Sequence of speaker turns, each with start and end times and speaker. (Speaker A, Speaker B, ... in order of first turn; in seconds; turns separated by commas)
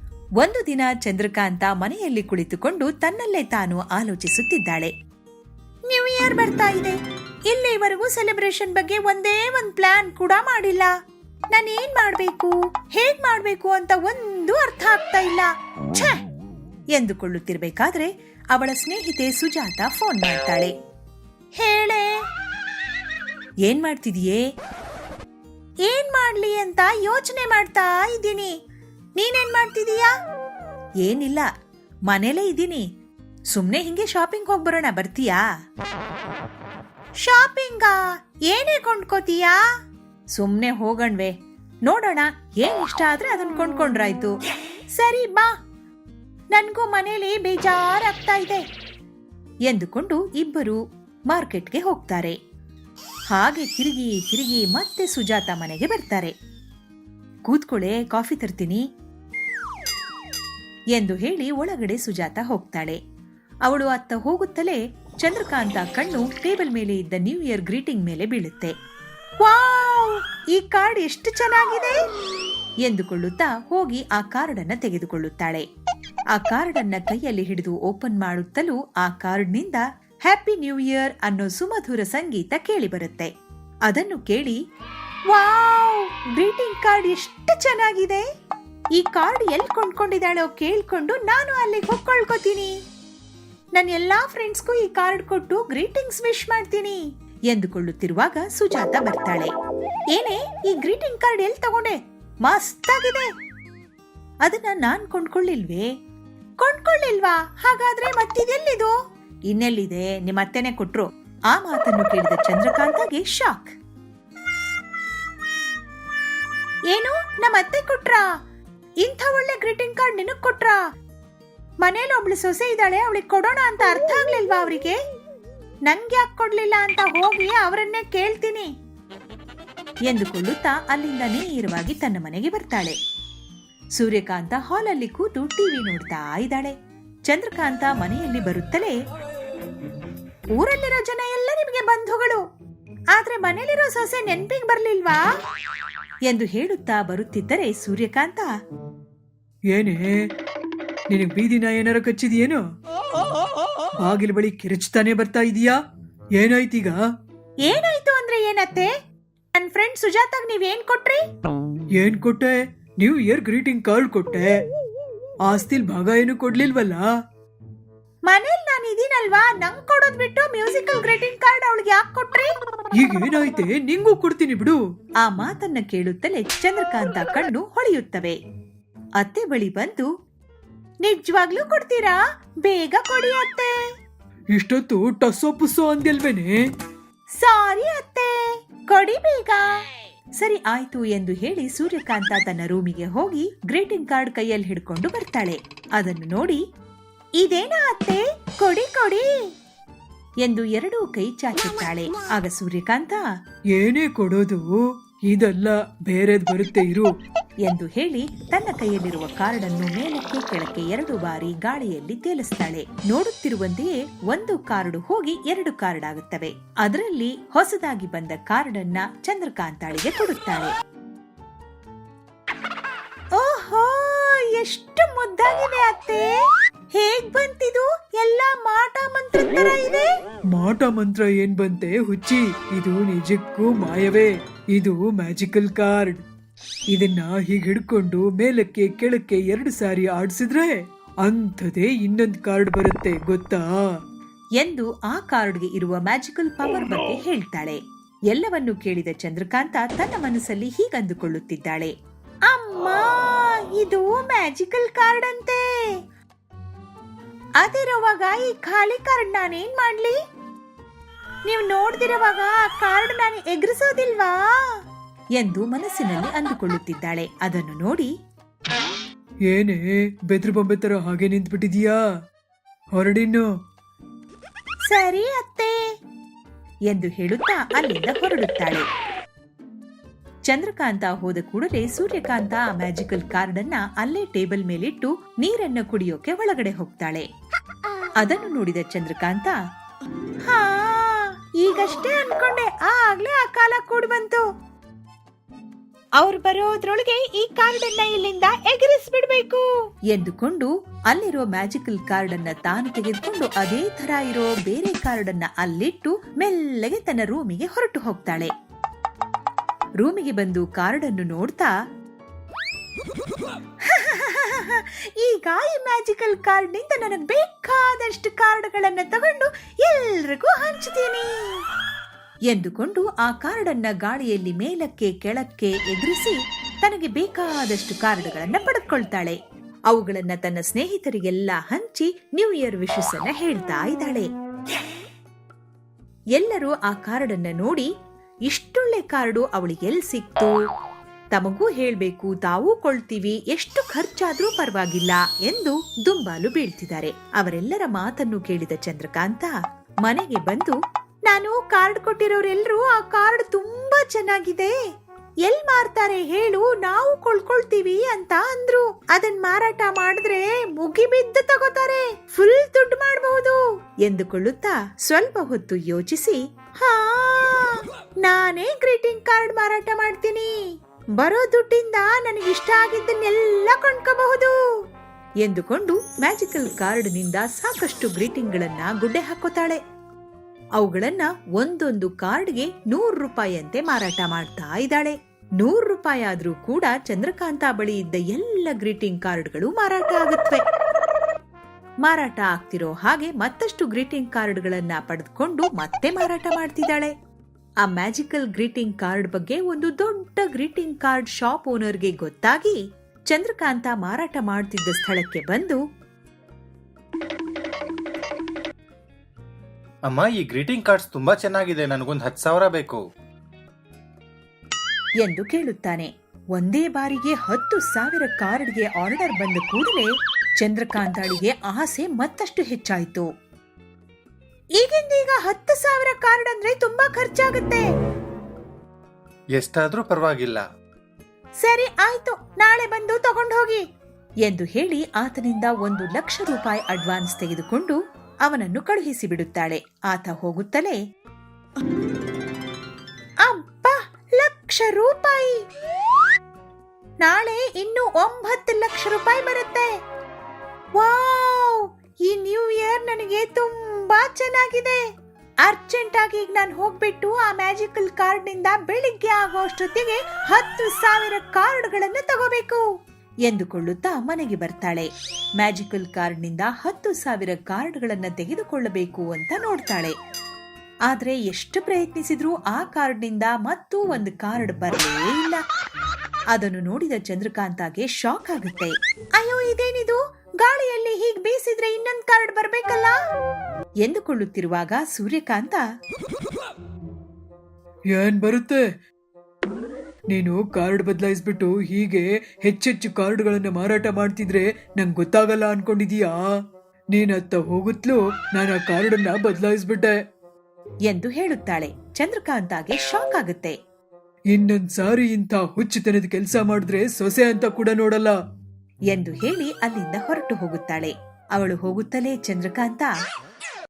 Speaker A: 0.4-4.9, Speaker A: 5.9-10.9, Speaker A: 11.5-16.2, Speaker A: 16.9-20.7, Speaker A: 21.6-22.1, Speaker A: 23.6-24.4, Speaker A: 25.9-28.5, Speaker A: 29.2-30.1, Speaker A: 31.0-31.5, Speaker A: 32.1-32.8, Speaker A: 33.5-35.4, Speaker A: 37.2-38.0, Speaker A: 38.5-39.6, Speaker A: 40.3-41.3, Speaker A: 41.9-44.4, Speaker A: 45.0-45.5, Speaker A: 46.5-48.6, Speaker A: 49.7-52.4, Speaker A: 53.3-56.3, Speaker A: 57.5-58.8, Speaker A: 60.9-63.0, Speaker A: 63.6-68.7, Speaker A: 69.4-72.0, Speaker A: 72.8-75.6, Speaker A: 76.3-83.3, Speaker A: 83.9-84.6, Speaker A: 85.3-88.2, Speaker A: 88.9-92.7, Speaker A: 93.7-99.5, Speaker A: 100.1-103.3, Speaker A: 104.4-105.9, Speaker A: 106.6-108.9, Speaker A: 109.5-113.7, Speaker A: 116.9-118.3, Speaker A: 119.0-120.8, Speaker A: 121.8-125.0, Speaker A: 125.8-128.7, Speaker A: 130.1-132.9, Speaker A: 133.9-136.7, Speaker A: 137.3-138.9, Speaker A: 140.5-142.4, Speaker A: 143.1-145.2, Speaker A: 146.3-148.5, Speaker B: 149.7-150.3, Speaker B: 151.1-152.6, Speaker B: 154.0-155.8, Speaker B: 156.3-157.0, Speaker A: 157.6-158.9, Speaker A: 159.5-161.2, Speaker B: 162.0-164.6, Speaker B: 165.4-167.1, Speaker A: 168.3-172.5, Speaker B: 173.0-174.8, Speaker A: 175.2-178.4, Speaker A: 179.2-180.1, Speaker A: 181.0-183.8, Speaker B: 184.5-186.5, Speaker A: 187.4-188.3, Speaker A: 188.9-189.7, Speaker A: 190.4-196.6, Speaker A: 197.4-199.3, Speaker A: 200.4-203.2, Speaker B: 203.8-207.1, Speaker A: 207.6-220.7, Speaker A: 223.3-226.3, Speaker A: 226.9-230.1, Speaker B: 230.5-236.2, Speaker B: 236.9-243.8, Speaker A: 244.6-247.8, Speaker A: 248.3-251.9, Speaker A: 252.5-255.6, Speaker A: 257.6-260.2, Speaker A: 261.5-264.8, Speaker A: 265.4-268.1, Speaker B: 269.5-272.0, Speaker B: 272.9-273.5, Speaker A: 274.9-275.8, Speaker A: 276.9-278.9, Speaker A: 280.5-287.2, Speaker A: 288.2-289.6, Speaker A: 290.4-294.4, Speaker A: 296.2-308.5, Speaker A: 310.0-311.7, Speaker A: 313.8-321.6, Speaker A: 322.5-329.4, Speaker A: 329.9-334.3, Speaker A: 336.4-337.9, Speaker A: 338.4-340.5, Speaker A: 341.3-349.5, Speaker A: 350.0-350.8, Speaker A: 351.3-354.7, Speaker A: 355.4-370.5, Speaker A: 371.2-374.5, Speaker A: 375.4-379.8, Speaker A: 380.8-390.6, Speaker A: 392.0-397.1, Speaker A: 397.8-402.8, Speaker A: 403.3-405.8, Speaker C: 410.1-413.0, Speaker A: 415.2-423.3, Speaker A: 424.8-427.9, Speaker C: 429.5-430.6, Speaker A: 431.6-433.8, Speaker A: 434.4-441.0, Speaker A: 443.4-445.6, Speaker A: 447.2-449.9, Speaker A: 451.0-455.0, Speaker A: 455.6-462.8, Speaker A: 463.4-470.1, Speaker A: 471.1-475.6, Speaker A: 476.5-483.1, Speaker A: 484.0-485.8, Speaker B: 488.1-488.8, Speaker B: 490.3-496.5, Speaker B: 497.1-500.1, Speaker A: 501.1-503.7, Speaker B: 504.5-508.4, Speaker A: 509.1-513.1